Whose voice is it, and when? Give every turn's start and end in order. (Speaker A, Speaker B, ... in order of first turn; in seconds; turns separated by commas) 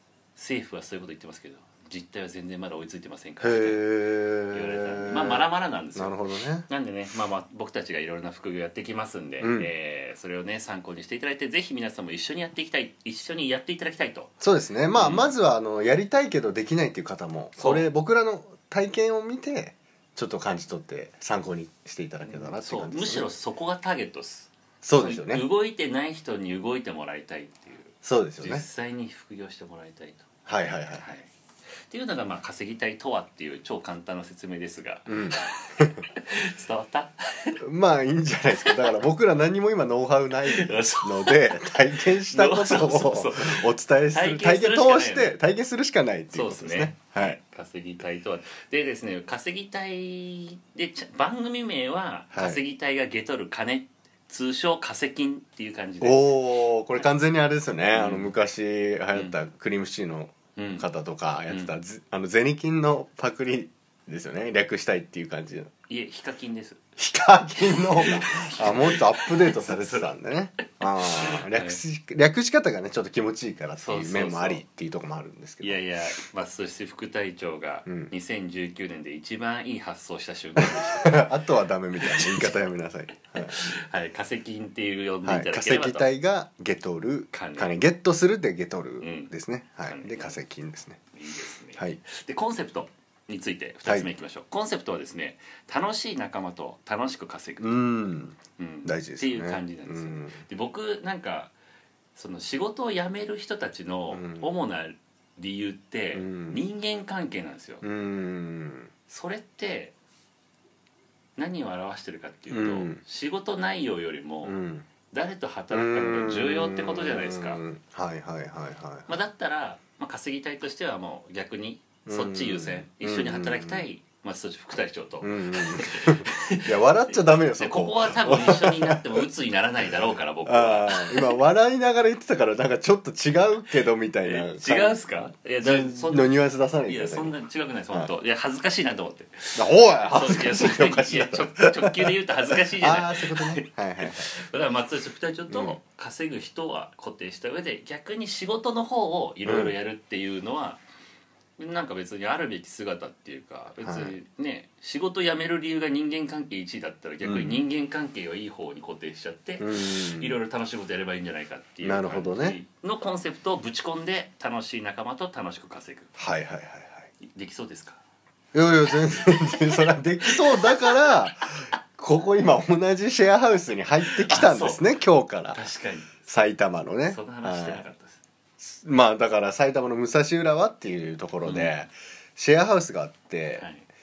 Speaker A: 0.3-3.8, Speaker B: 3.4-6.7, Speaker A: 4.5-14.3, Speaker B: 9.4-9.7, Speaker B: 14.4-23.3, Speaker A: 14.9-15.3, Speaker A: 17.6-17.9, Speaker A: 22.2-30.3, Speaker B: 24.8-25.4, Speaker B: 28.0-28.6, Speaker B: 30.5-31.1, Speaker A: 30.9-31.3, Speaker A: 31.9-37.6, Speaker B: 35.1-35.9, Speaker B: 37.6-47.4, Speaker A: 38.6-38.9, Speaker A: 40.5-45.4, Speaker A: 46.3-56.4, Speaker B: 52.3-52.6, Speaker B: 56.0-65.7, Speaker A: 57.9-58.3, Speaker A: 60.5-60.9, Speaker A: 65.9-66.8, Speaker B: 67.0-75.8, Speaker A: 67.8-70.1, Speaker A: 70.8-71.8, Speaker A: 73.8-74.6, Speaker A: 75.6-81.3, Speaker B: 77.8-78.1, Speaker B: 80.6-83.6, Speaker A: 82.0-82.7, Speaker A: 83.3-86.1, Speaker B: 85.2-91.0, Speaker A: 87.3-87.7, Speaker A: 89.0-89.3, Speaker A: 89.8-90.4, Speaker A: 91.1-97.8, Speaker B: 97.6-100.4, Speaker A: 98.5-101.5, Speaker A: 102.1-107.8, Speaker B: 104.1-104.5, Speaker B: 106.1-106.6, Speaker B: 107.8-108.9, Speaker A: 109.1-109.9, Speaker A: 111.3-114.5, Speaker B: 112.5-113.0, Speaker B: 114.4-114.9, Speaker A: 115.1-117.6, Speaker B: 115.7-119.1, Speaker A: 119.1-131.3, Speaker B: 122.0-123.9, Speaker B: 125.2-129.2, Speaker B: 130.4-137.3, Speaker A: 134.2-150.8, Speaker B: 139.5-144.3, Speaker B: 145.5-145.8, Speaker B: 149.4-149.7, Speaker A: 151.6-166.1, Speaker B: 153.8-154.2, Speaker B: 157.2-157.6, Speaker B: 159.6-160.4, Speaker B: 161.8-162.6, Speaker B: 166.2-167.1, Speaker A: 167.2-168.0, Speaker B: 168.5-175.6, Speaker A: 170.3-171.0, Speaker A: 174.0-174.9, Speaker A: 175.5-176.2, Speaker B: 176.3-177.8, Speaker A: 177.1-178.2, Speaker B: 178.6-183.7, Speaker A: 181.4-181.8, Speaker A: 183.6-183.8